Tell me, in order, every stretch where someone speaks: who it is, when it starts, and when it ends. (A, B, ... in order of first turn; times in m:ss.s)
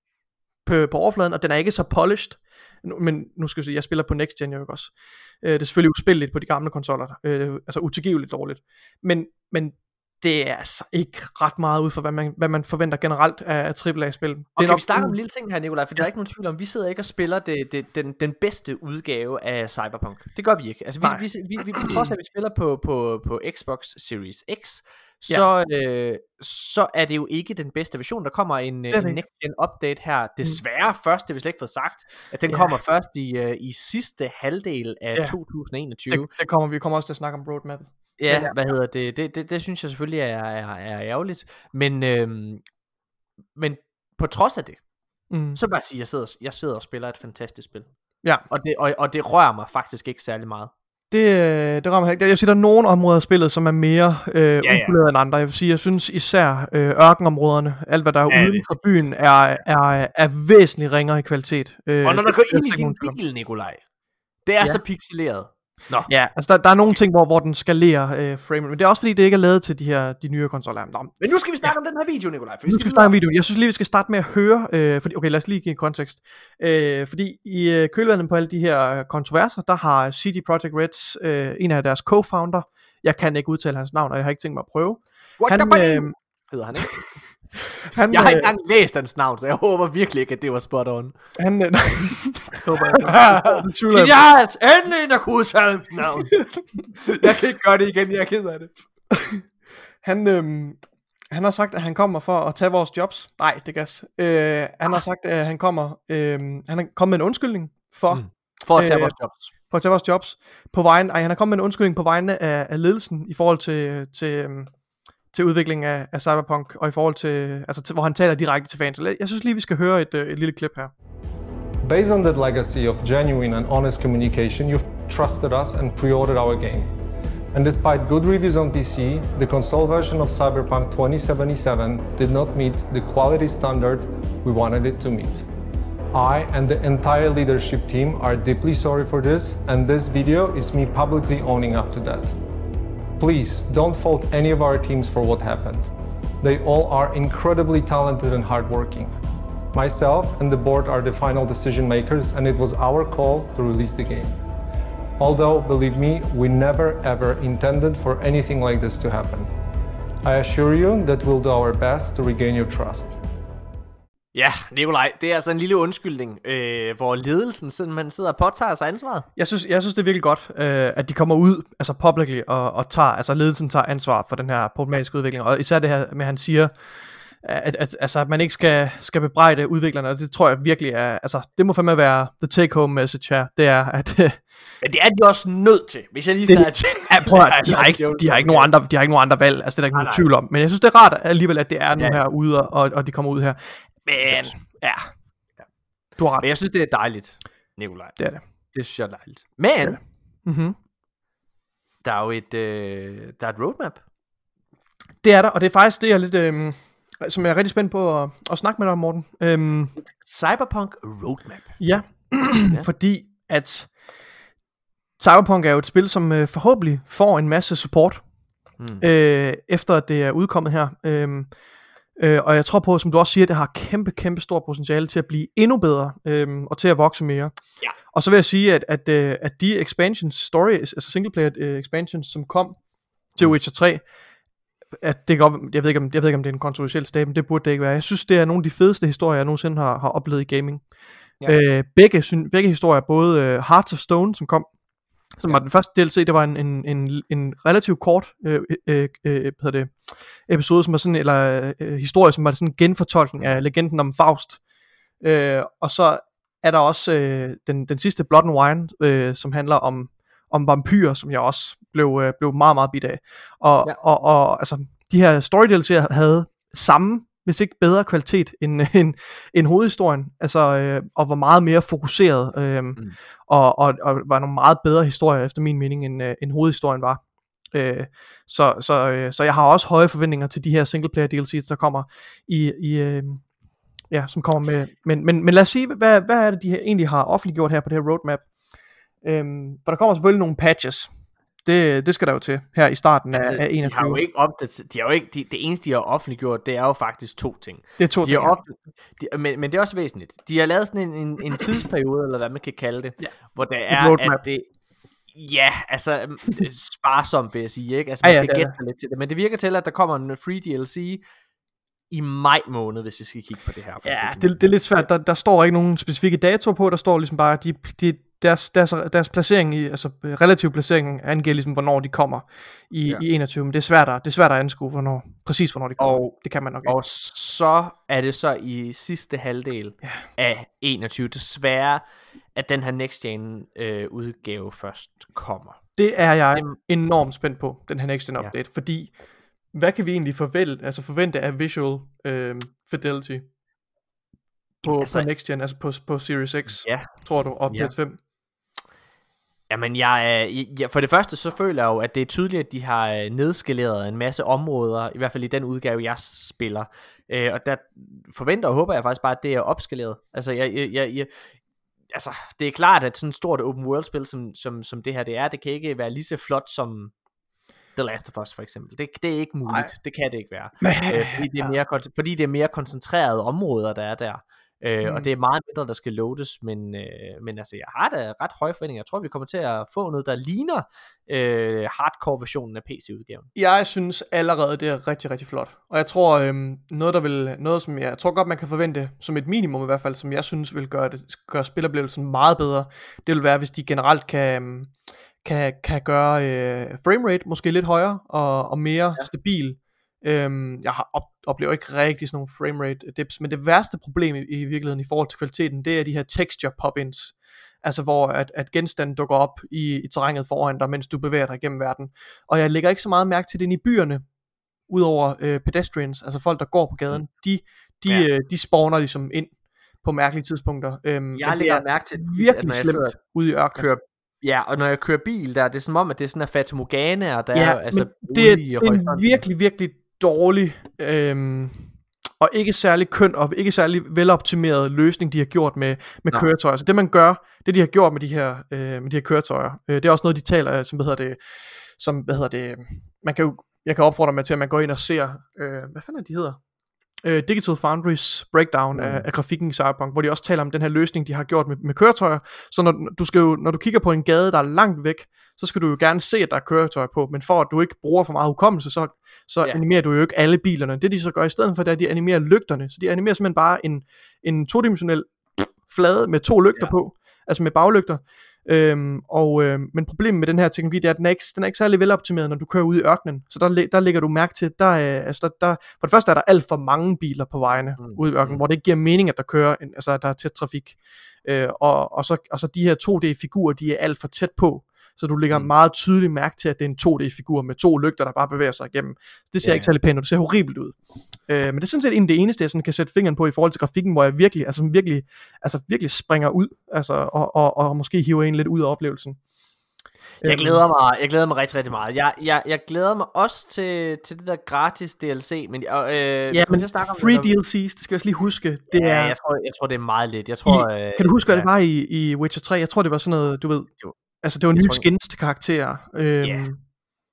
0:00.6-0:15.2 A
0:14.6-0:36.3 B
0:21.8-0:22.1 A
0:28.9-0:29.2 A
0:32.5-0:32.8 A
0:36.1-0:38.6 A
0:38.2-0:42.6 B
0:43.6-0:44.8 B
0:45.3-0:45.6 A
0:45.6-0:47.9 B
0:48.5-0:50.7 B
0:51.1-1:03.2 A
0:54.6-0:55.0 B
0:58.3-0:59.0 B
1:02.0-1:03.8 B
1:04.4-1:06.1 B
1:06.1-1:11.8 A
1:11.2-1:13.2 B
1:12.7-1:26.2 A
1:25.4-1:27.2 B
1:27.9-1:28.5 A
1:28.1-1:31.2 B
1:31.4-1:34.2 A
1:32.8-1:36.4 B
1:36.3-1:36.6 A
1:37.0-1:38.7 B
1:39.2-1:39.4 A
1:40.0-1:40.8 A
1:41.3-1:49.2 A
1:48.1-1:49.5 B
1:49.7-1:54.7 A
1:55.3-2:00.9 A
2:01.8-2:06.9 C
2:07.5-2:15.4 C
2:16.1-2:22.4 C
2:23.2-2:29.2 C
2:29.7-2:34.4 C
2:35.2-2:39.5 C
2:40.2-2:43.2 C
2:44.3-2:49.3 B
2:49.4-2:56.8 A
2:57.4-3:04.4 A
3:04.8-3:08.7 B
3:06.5-3:15.1 A
3:09.9-3:10.3 B
3:12.0-3:12.2 B
3:14.2-3:14.6 B
3:16.2-3:16.5 A
3:16.4-3:18.2 B
3:18.7-3:20.0 B
3:19.8-3:20.8 A
3:22.0-3:24.0 B
3:25.2-3:30.0 A
3:30.0-3:32.9 B
3:31.8-3:34.0 A
3:35.2-3:38.2 A
3:38.8-3:39.0 B
3:39.0-3:41.5 A
3:42.2-3:52.8 A
3:53.3-3:54.1 A
3:55.0-4:00.9 A
4:01.4-4:04.7 A
4:05.3-4:14.6 A
4:15.2-4:43.4 A
4:44.1-4:48.5 A
4:49.2-4:51.1 A
4:51.6-4:54.2 A
4:53.3-5:04.7 B
4:58.0-4:58.6 A
5:03.9-5:04.4 A
5:05.3-5:11.2 B
5:08.2-5:08.7 A
5:12.1-5:15.0 B
5:14.0-5:27.0 A
5:26.0-5:32.0 B
5:32.6-5:35.8 B
5:36.0-5:39.2 A
5:39.7-5:43.5 A
5:44.8-5:48.2 A
5:44.8-5:45.3 B
5:46.7-5:47.9 B
5:49.7-6:01.3 B
6:02.1-6:07.1 B
6:08.0-6:23.5 B
6:09.7-6:09.9 A
6:10.8-6:11.7 A
6:15.0-6:15.3 A
6:23.6-6:54.2 A
6:54.9-7:03.9 A
7:01.4-7:03.2 B
7:03.8-7:09.4 B
7:07.5-7:26.6 A
7:27.2-8:19.4 A
7:28.9-7:29.3 B
7:58.0-7:58.6 B
8:09.6-8:09.9 B
8:20.4-8:20.8 A
8:20.4-8:27.6 B
8:26.5-8:29.4 A
8:28.9-8:31.7 B
8:30.7-8:33.9 A
8:34.4-8:36.8 A
8:34.7-8:35.1 B
8:36.4-8:36.7 B